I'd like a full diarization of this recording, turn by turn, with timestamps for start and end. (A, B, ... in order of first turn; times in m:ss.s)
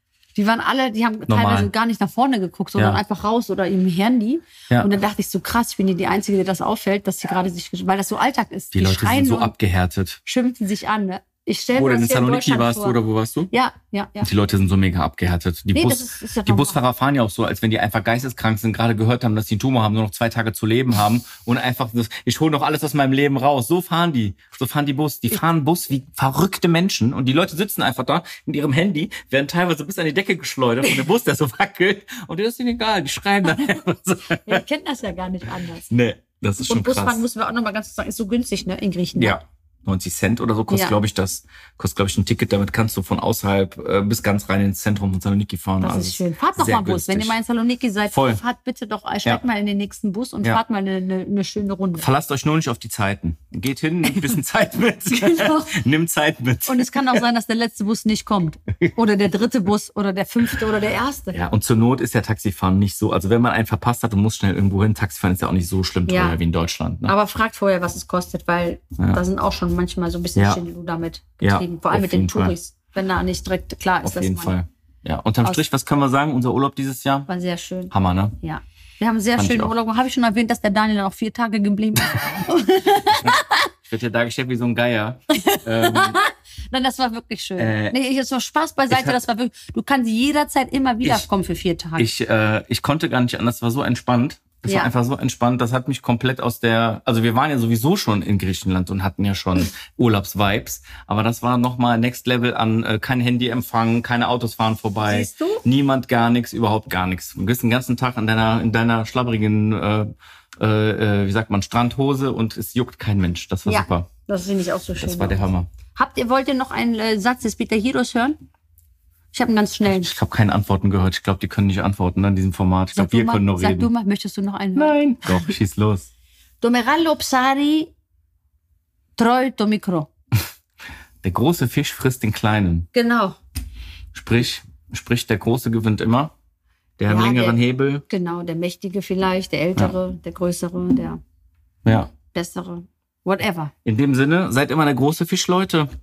0:00.3-0:09.5 A
0:01.3-0:01.7 B
0:02.8-0:03.0 B
0:08.7-0:10.2 B
0:10.2-0:13.0 A
0:11.7-0:13.5 B
0:13.5-0:14.3 A
0:14.2-0:34.6 B
0:15.7-0:16.8 A
0:34.4-0:35.9 A
0:35.9-0:37.2 B
0:36.7-0:39.4 A
0:39.2-0:47.4 B
0:40.7-0:41.0 A
0:45.8-0:52.1 A
0:48.1-0:48.4 B
0:52.0-0:57.2 B
0:55.1-0:55.8 A
0:56.6-1:01.4 A
1:01.3-1:07.1 B
1:06.1-1:06.4 A
1:07.0-1:14.5 A
1:10.3-1:10.6 B
1:11.4-1:12.5 B
1:14.0-1:17.3 B
1:17.3-1:23.7 A
1:17.9-1:18.4 B
1:19.4-1:19.7 B
1:23.1-1:26.2 B
1:25.3-1:32.1 A
1:27.6-1:28.0 B
1:28.9-1:29.2 B
1:32.0-1:54.1 B
1:34.6-1:34.9 A
1:45.0-1:45.6 A
1:53.6-1:58.4 A
1:55.0-1:55.7 B
1:59.3-2:00.1 A
1:59.8-2:03.9 B
2:02.9-2:05.5 A
2:04.8-2:06.1 B
2:06.6-2:07.9 A
2:09.2-2:10.1 A
2:11.2-2:12.9 B
2:12.9-2:13.4 A
2:14.1-2:16.3 B
2:17.0-2:18.0 B
2:17.1-2:21.2 A
2:21.8-2:22.1 B
2:22.3-2:23.7 A
2:23.8-2:25.9 B